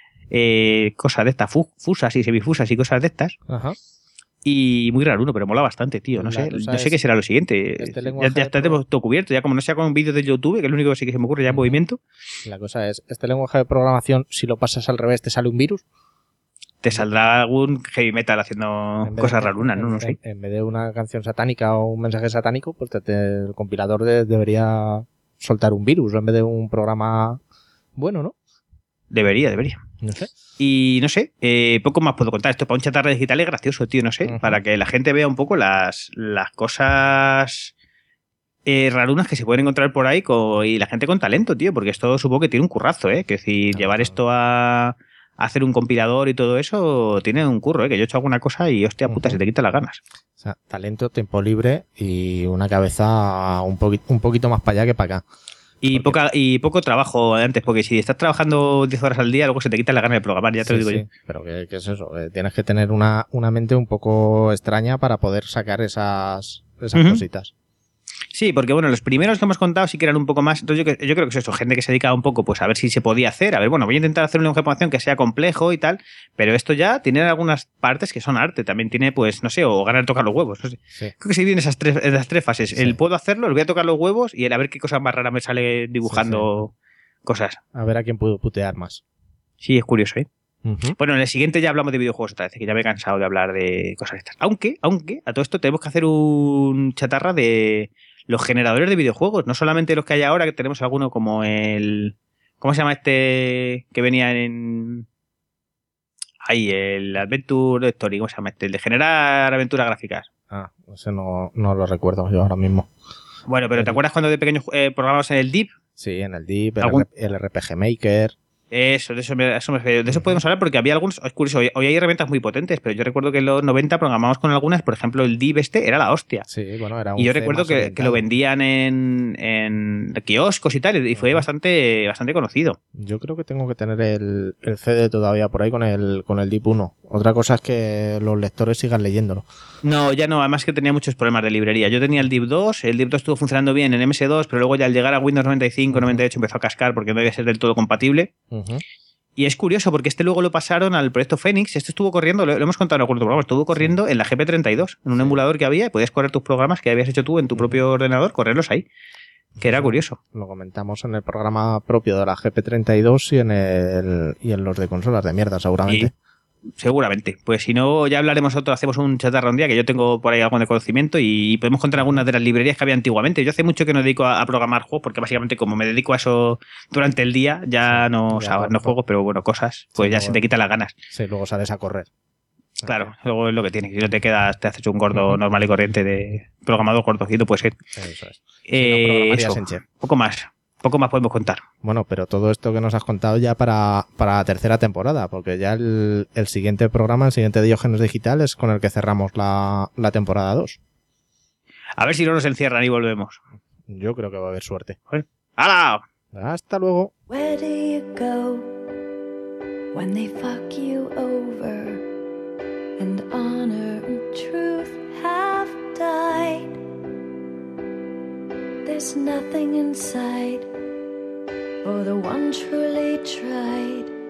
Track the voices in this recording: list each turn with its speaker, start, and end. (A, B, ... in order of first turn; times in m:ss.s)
0:00.3-0:03.3 A
0:03.5-0:03.8 B
0:04.5-0:12.0 A
0:06.2-0:07.0 B
0:07.8-0:08.8 B
0:11.5-0:11.8 B
0:12.4-0:15.8 B
0:16.8-0:20.2 A
0:19.0-0:27.4 B
0:28.0-0:28.4 B
0:29.1-0:29.8 A
0:30.0-0:30.4 B
0:30.6-0:37.7 A
0:34.2-0:34.6 B
0:38.7-0:50.0 A
0:43.7-0:44.2 B
0:49.1-0:49.4 B
0:50.4-0:55.2 B
0:55.8-1:01.1 A
0:55.9-0:56.2 B
1:00.6-1:07.5 B
1:07.0-1:07.2 A
1:08.3-1:26.7 A
1:22.7-1:23.0 B
1:26.0-1:26.5 B
1:27.3-1:27.6 A
1:27.7-1:29.0 B
1:29.6-1:30.3 A
1:30.6-1:31.0 B
1:31.0-1:45.1 A
1:46.4-1:50.3 A
1:50.5-1:52.9 B
1:53.5-1:55.7 A
1:56.0-1:58.3 B
1:56.8-1:57.1 A
1:58.7-2:06.5 A
2:00.1-2:00.4 B
2:06.5-2:08.2 B
2:07.2-2:12.8 A
2:11.1-2:11.5 B
2:13.0-2:19.5 B
2:19.8-2:28.3 A
2:25.9-2:26.2 B
2:28.5-2:28.8 B
2:29.4-2:38.9 A
2:35.1-2:35.4 B
2:37.6-2:37.8 B
2:39.6-2:46.1 B
2:39.6-2:40.2 A
2:46.8-3:00.9 A
2:52.0-2:52.2 B
2:57.9-2:59.0 B
3:00.0-3:00.4 B
3:01.1-3:02.1 B
3:02.8-3:03.1 B
3:02.8-3:07.8 A
3:05.1-3:05.4 B
3:08.0-3:09.8 B
3:08.7-3:11.6 A
3:11.8-3:20.8 B
3:22.0-3:23.4 A
3:23.9-3:25.0 B
3:25.1-3:26.0 A
3:26.3-3:27.1 B
3:27.3-3:28.8 C
3:29.9-3:32.1 C
3:33.0-3:36.8 C
3:38.8-3:40.7 C
3:41.8-3:44.1 C